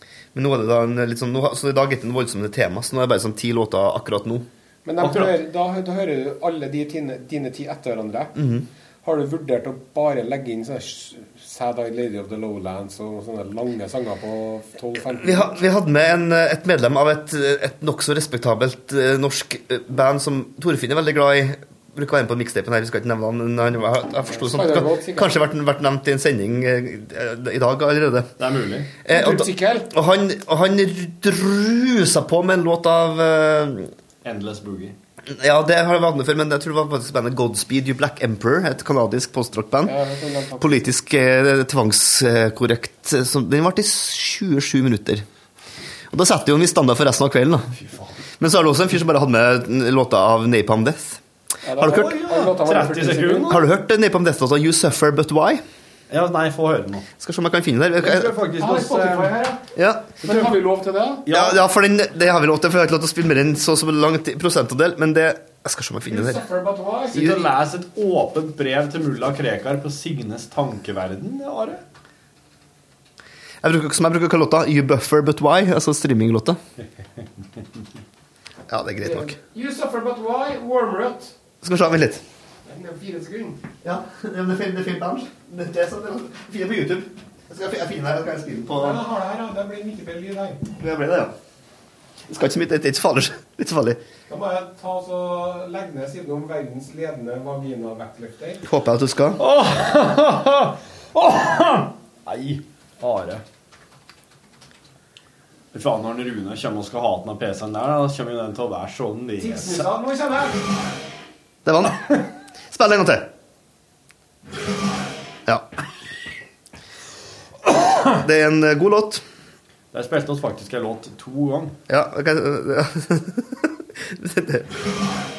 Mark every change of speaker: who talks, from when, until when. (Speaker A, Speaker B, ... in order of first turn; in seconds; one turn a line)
Speaker A: 0.3-4.5
Speaker B: 4.8-8.4
Speaker C: 5.0-5.4
Speaker A: 8.4-8.7
Speaker B: 9.0-15.6
Speaker A: 15.2-28.3
Speaker B: 24.3-25.4
Speaker C: 28.4-28.9
Speaker A: 29.1-33.9
Speaker B: 29.1-29.9
Speaker C: 34.2-35.0
Speaker A: 35.3-40.0
Speaker B: 39.9-40.8
Speaker A: 40.6-45.2
Speaker A: 46.1-47.7
Speaker C: 47.7-48.2
Speaker A: 48.4-51.2
Speaker B: 51.6-53.6
Speaker A: 51.8-52.1
Speaker C: 51.8-53.7
Speaker A: 53.5-55.6
Speaker C: 56.1-57.1
Speaker A: 57.2-58.4
Speaker C: 58.0-59.4
Speaker B: 58.6-59.7
Speaker A: 59.8-60.2
Speaker B: 60.2-61.3
Speaker C: 60.2-60.5
Speaker C: 61.3-61.6
Speaker A: 61.3-66.4
Speaker B: 66.1-67.3
Speaker C: 67.1-71.8
Speaker A: 73.6-76.6
Speaker C: 77.2-77.6
Speaker A: 78.7-79.4
Speaker B: 79.0-81.3
Speaker A: 81.6-82.2
Speaker B: 82.7-83.6
Speaker A: 83.8-89.0
Speaker B: 88.8-90.6
Speaker A: 90.8-91.3
Speaker A: 92.3-94.0
Speaker B: 94.3-98.6
Speaker A: 98.6-99.4
Speaker C: 99.4-103.4
Speaker C: 105.7-109.9
Speaker B: 109.4-110.7
Speaker A: 111.7-113.3
Speaker A: 118.0-119.2
Speaker C: 119.9-121.8
Speaker A: 121.9-124.8